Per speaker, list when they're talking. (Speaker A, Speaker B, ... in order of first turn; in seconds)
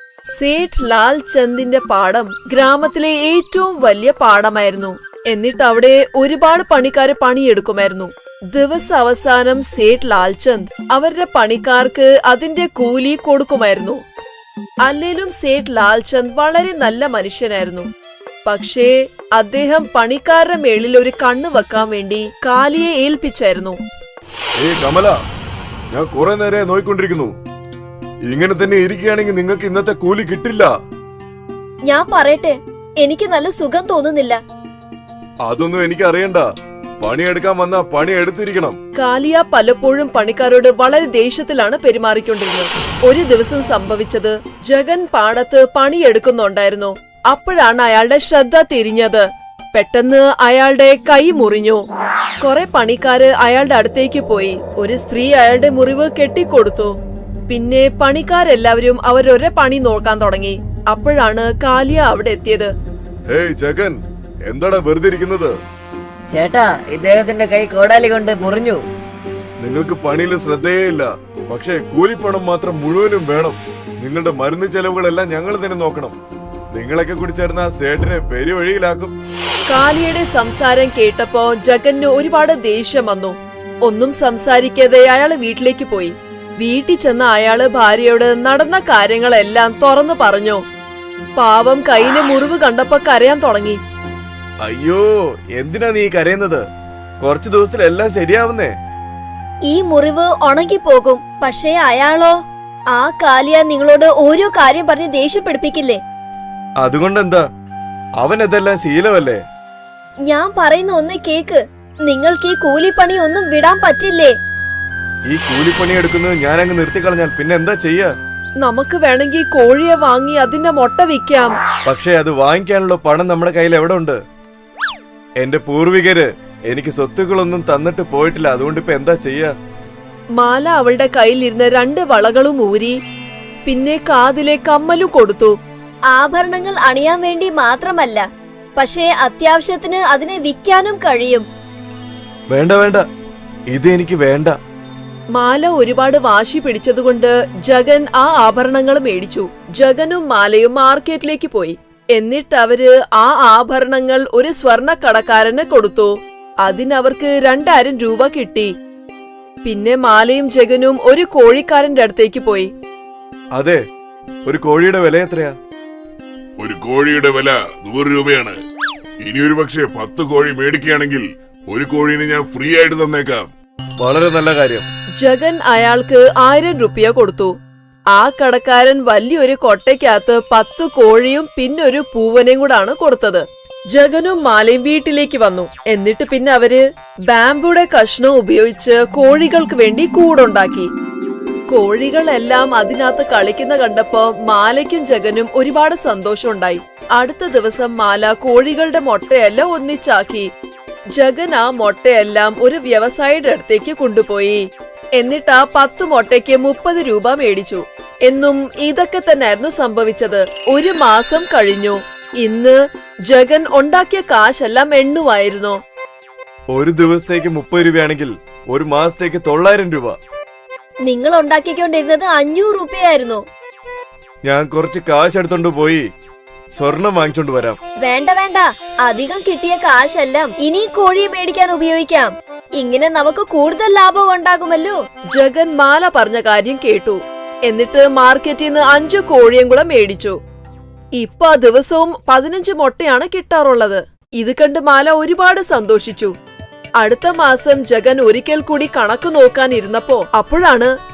Speaker A: 0.3-14.0, 14.8-17.9, 18.4-23.8, 39.0-51.8, 52.4-56.9, 57.5-62.7, 79.7-90.6, 91.4-93.8, 118.6-121.5, 130.4-132.9, 133.7-135.6, 145.3-158.7, 159.7-162.7, 175.2-177.5, 178.1-190.9, 191.7-200.5, 201.2-204.6, 205.2-215.8, 235.3-240.4, 241.2-246.3, 247.0-250.9
Speaker B: 24.6-25.1, 25.9-27.3, 28.3-30.7, 35.5-36.4, 37.0-38.8, 63.3-64.0, 64.5-65.5, 69.6-76.2, 76.7-79.1, 94.7-96.6, 97.2-98.7, 106.8-107.4, 108.2-109.4, 115.3-118.1, 121.9-124.2, 125.4-129.5, 142.5-143.1, 143.7-144.6, 163.5-163.8, 164.5-165.5, 174.0-174.9, 216.7-220.2, 224.4-226.0, 226.8-227.8
Speaker C: 31.9-34.4, 99.7-102.3, 102.9-106.0, 110.3-114.3, 136.1-138.2, 138.8-141.4, 221.1-223.4, 228.0-235.0
Speaker D: 66.3-68.8
Speaker E: 166.6-168.6, 169.2-173.5